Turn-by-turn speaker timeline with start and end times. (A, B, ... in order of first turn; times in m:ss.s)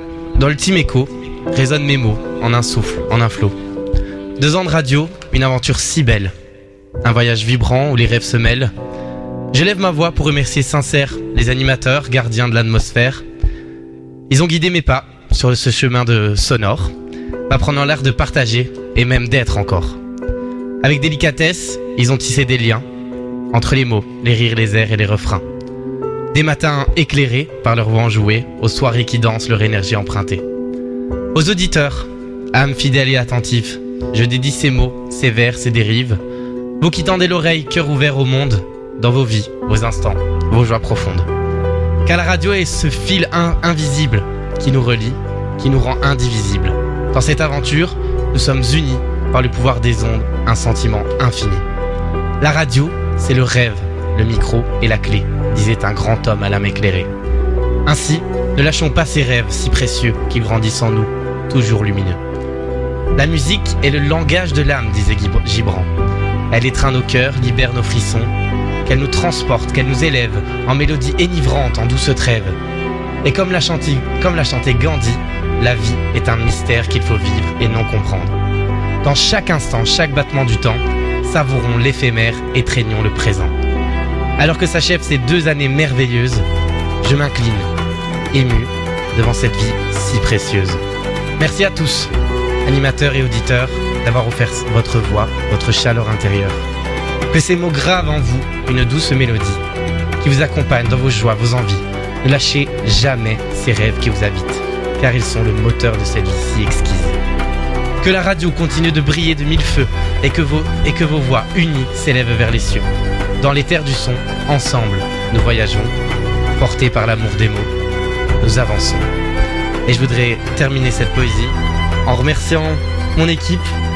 0:00.4-0:03.5 A
0:04.4-0:06.3 A
0:07.0-0:08.7 A
0:09.5-0:13.2 A
0:14.3-0:16.9 A
0:17.5-0:20.0 A
0:20.8-0:22.8 A
0:23.5-0:25.4 A
0:26.3-0:30.4 A
0:31.3-0:36.2 A
0:36.8-0:41.3 A
0:42.0-0:51.6 A
0:52.4-0:57.1 A
0:57.8-1:02.2 A
1:03.2-1:05.9 A
1:06.5-1:08.3 A
1:08.8-1:12.6 A
1:13.2-1:18.4 A
1:19.0-1:23.5 A
1:24.4-1:26.4 A
1:27.0-1:27.7 A
1:28.3-1:30.8 A
1:31.4-1:32.1 A
1:32.6-1:36.6 A
1:37.3-1:39.6 A
1:40.2-1:47.2 A
1:48.0-1:52.8 A
1:53.4-1:55.9 A
1:56.6-1:57.7 A
1:58.4-1:59.1 A
1:59.9-2:01.5 A
2:02.0-2:03.7 A